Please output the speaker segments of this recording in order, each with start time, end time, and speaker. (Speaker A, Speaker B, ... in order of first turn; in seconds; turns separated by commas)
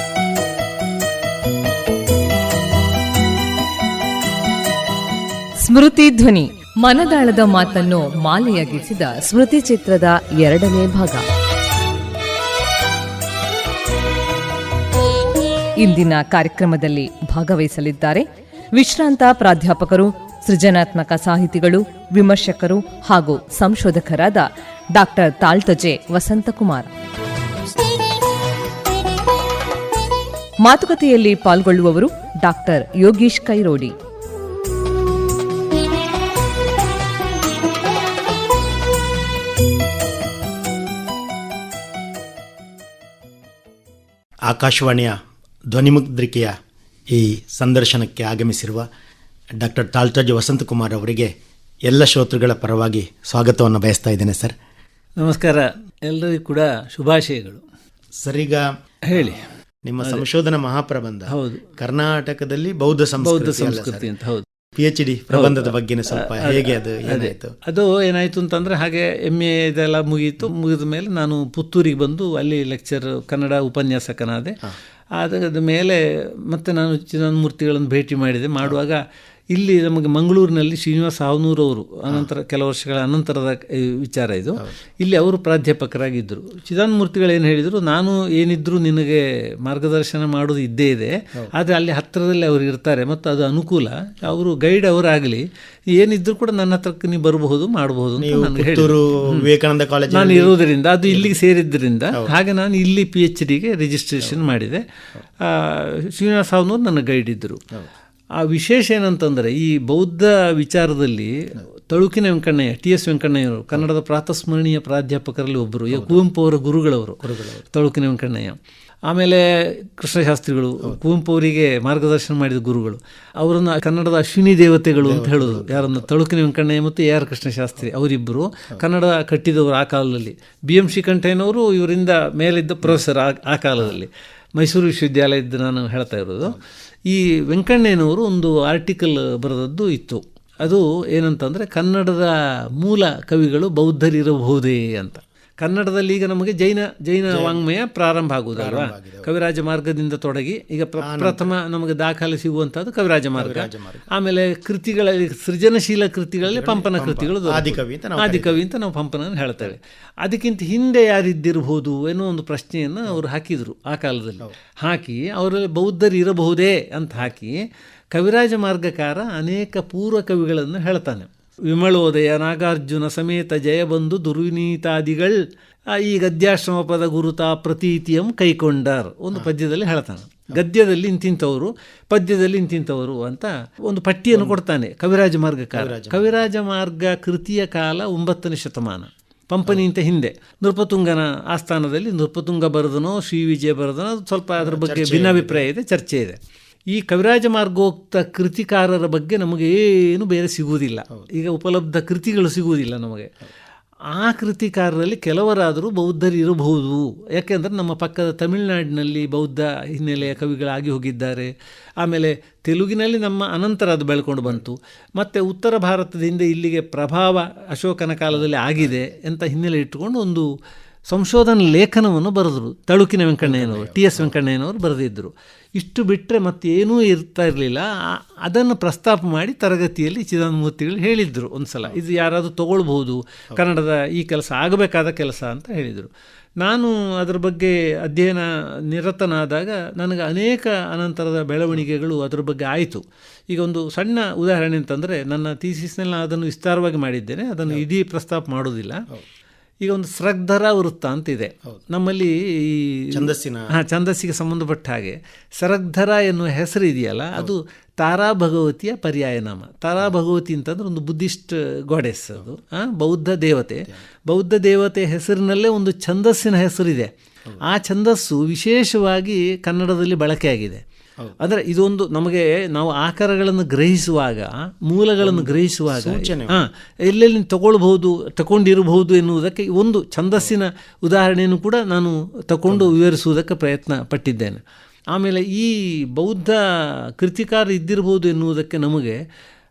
Speaker A: 5.6-11.2, Speaker A: 15.8-26.9, Speaker A: 30.6-33.9, Speaker B: 44.5-45.2, Speaker B: 45.7-46.5, Speaker B: 47.1-48.9, Speaker B: 49.6-51.3, Speaker B: 51.9-54.6, Speaker C: 55.2-57.6, Speaker B: 58.2-64.1, Speaker C: 59.1-59.5, Speaker C: 61.3-61.7, Speaker C: 63.2-64.5, Speaker B: 64.7-67.5, Speaker C: 65.3-74.6, Speaker C: 75.2-79.0, Speaker C: 79.5-99.5, Speaker B: 98.2-100.6, Speaker C: 100.1-104.8, Speaker B: 101.1-101.4, Speaker C: 105.4-107.6, Speaker C: 108.4-196.4, Speaker B: 115.9-116.2, Speaker B: 117.2-117.6, Speaker B: 125.0-126.1, Speaker B: 147.3-147.6, Speaker B: 148.6-149.3, Speaker B: 151.0-151.5, Speaker B: 153.3-154.1, Speaker B: 156.4-158.6, Speaker B: 184.3-184.6, Speaker B: 185.7-186.4, Speaker B: 194.6-195.7, Speaker C: 196.9-203.3, Speaker C: 204.1-220.5, Speaker B: 218.3-219.1, Speaker C: 221.1-236.1, Speaker B: 223.4-224.4, Speaker C: 236.6-249.1, Speaker C: 249.8-270.8, Speaker B: 253.1-253.7, Speaker C: 271.4-284.6, Speaker B: 275.2-276.6, Speaker B: 282.7-282.9, Speaker C: 285.1-289.2